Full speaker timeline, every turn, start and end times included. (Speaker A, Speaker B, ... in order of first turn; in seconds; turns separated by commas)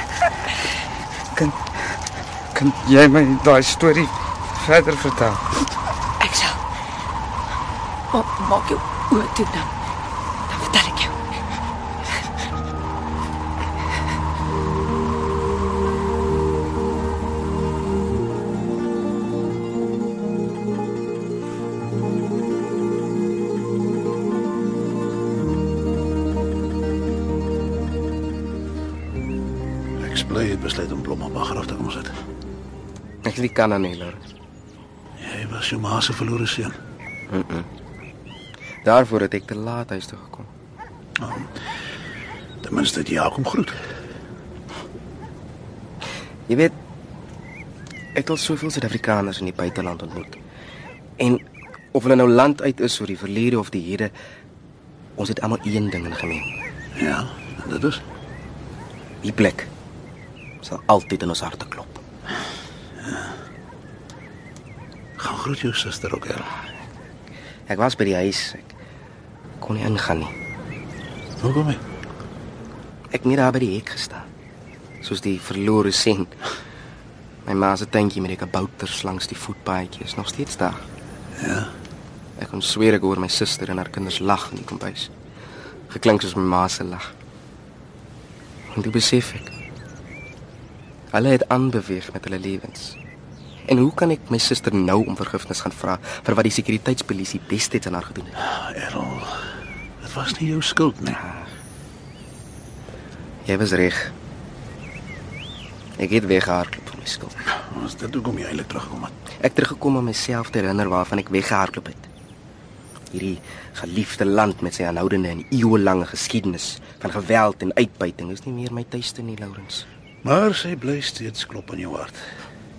Speaker A: 1.3-1.6, Speaker A: 2.5-5.4, Speaker B: 6.2-6.6, Speaker B: 8.1-9.7, Speaker B: 10.5-11.1, Speaker C: 30.0-32.1, Speaker D: 33.2-34.2, Speaker C: 35.2-36.8, Speaker D: 37.3-37.7, Speaker D: 38.8-40.5, Speaker C: 41.2-41.5, Speaker C: 42.6-43.8, Speaker D: 46.5-46.7, Speaker D: 48.1-50.4, Speaker D: 51.2-54.1, Speaker D: 55.2-56.5, Speaker C: 57.0-58.0, Speaker D: 59.2-59.7, Speaker D: 60.6-62.0, Speaker C: 63.0-63.3, Speaker C: 65.2-66.5, Speaker D: 67.7-68.8, Speaker D: 69.6-70.3, Speaker C: 71.4-71.8, Speaker D: 73.1-74.3, Speaker D: 75.0-76.3, Speaker D: 77.5-80.8, Speaker C: 81.4-81.7, Speaker D: 82.4-85.1, Speaker D: 85.9-87.1, Speaker D: 88.7-89.5, Speaker D: 91.1-93.0, Speaker D: 93.7-98.4, Speaker C: 98.5-99.4, Speaker C: 100.0-101.2, Speaker D: 101.1-101.5, Speaker D: 103.5-104.1, Speaker D: 106.0-107.4, Speaker C: 107.7-109.1, Speaker D: 109.4-112.1, Speaker D: 113.1-119.9, Speaker C: 120.2-122.2